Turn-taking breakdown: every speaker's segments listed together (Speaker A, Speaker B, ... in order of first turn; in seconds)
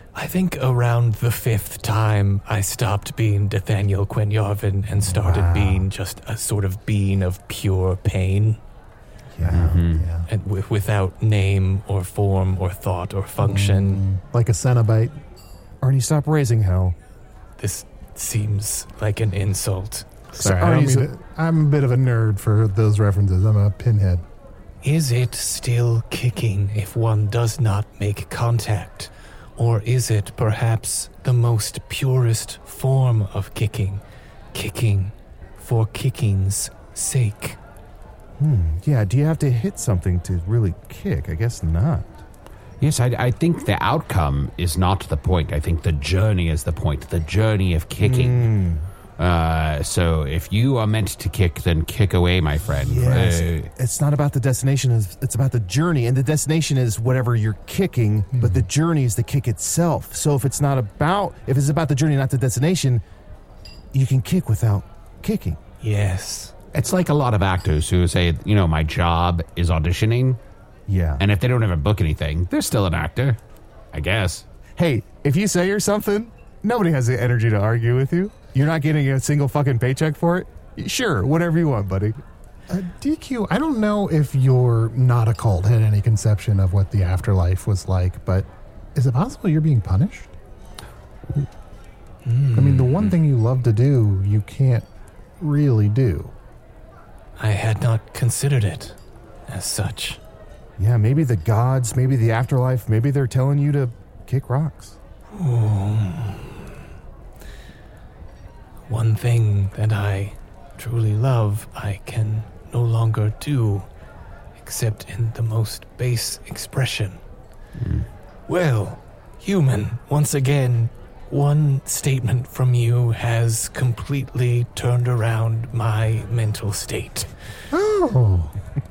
Speaker A: 0.1-8.6, 10.3-14.0, 17.6-20.1, 24.8-34.0, 34.5-37.6, 65.8-66.5, 92.2-93.0, 97.4-100.2, 105.3-106.7, 108.9-113.9, 114.6-117.2, 118.5-127.3
Speaker B: 5.1-5.8, 9.3-9.8, 15.8-17.0, 20.4-21.1, 38.4-42.1, 48.0-48.9, 52.7-63.0, 63.9-65.6, 70.9-71.2, 74.8-82.2, 100.8-105.0
Speaker C: 9.4-10.3, 13.4-15.2, 20.3-24.2, 58.3-58.7, 82.7-90.3, 92.5-94.9, 95.4-96.3, 127.7-128.6
Speaker D: 9.5-10.1, 42.8-48.5, 49.2-53.7, 66.7-70.4, 71.2-73.4, 73.9-74.5, 117.8-118.1